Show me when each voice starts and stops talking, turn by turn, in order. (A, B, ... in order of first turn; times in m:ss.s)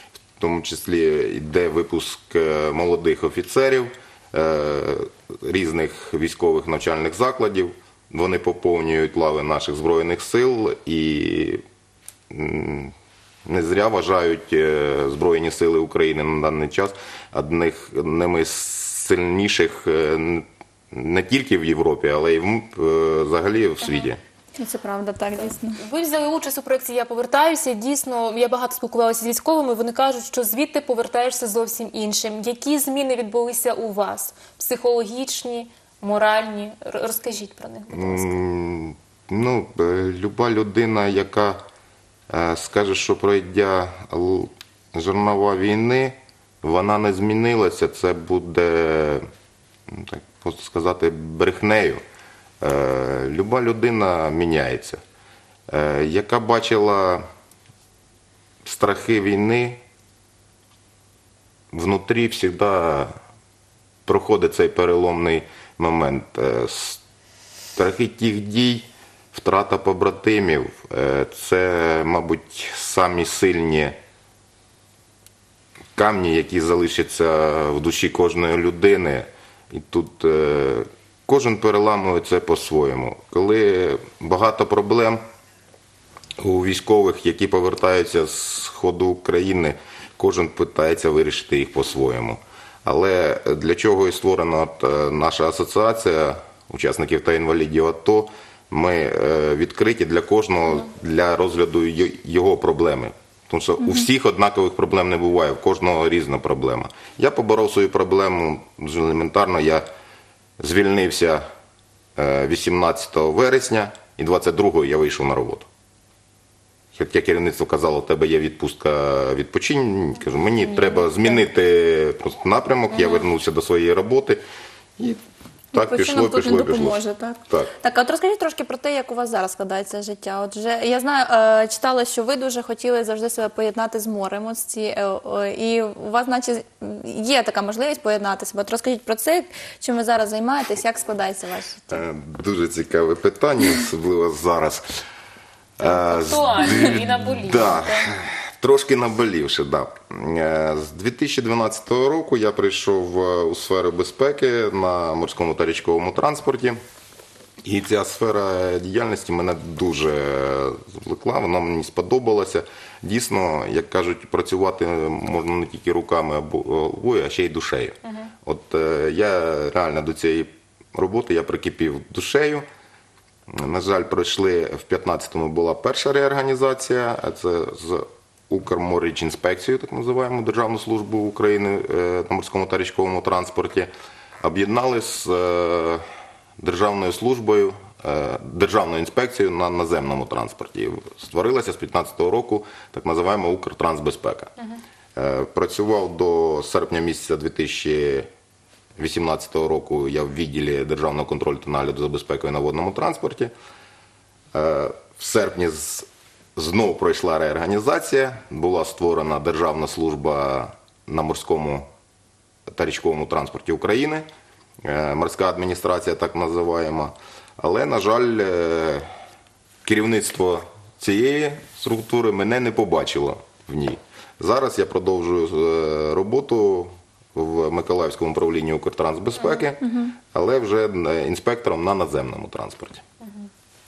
0:00.4-0:11.6 A
0:12.3-0:13.0 A
0:13.5-0:24.2 A
0:23.8-0:24.1 B
0:24.6-0:25.8 C
0:25.4-0:38.4 B
0:37.9-0:41.6 A
0:42.3-0:49.2 A
0:49.9-0:52.0 A
0:52.6-0:55.0 A
0:55.7-0:57.2 A
0:58.6-0:59.8 A
1:01.7-1:03.1 A
1:04.1-1:07.0 A
1:07.8-1:14.0 A
1:16.0-1:25.2 A
1:26.4-1:49.9 A
1:50.6-1:51.4 A
1:52.2-1:55.7 A
1:56.9-2:04.4 A
2:00.6-2:01.4 B
2:02.9-2:03.2 B
2:05.7-2:22.0 C
2:05.7-2:07.7 A
2:21.9-2:24.9 A
2:25.8-2:36.8 A
2:25.8-2:28.1 B
2:37.6-2:52.7 A
2:48.0-2:48.3 B
2:53.5-3:03.9 A
3:04.4-3:06.0 A
3:06.6-3:14.5 A
3:15.2-3:18.3 A
3:19.0-3:23.5 A
3:24.5-3:31.9 A
3:32.7-3:34.3 A
3:34.8-3:39.1 A
3:39.8-3:53.0 A
3:49.4-3:49.7 B
3:53.2-3:53.5 B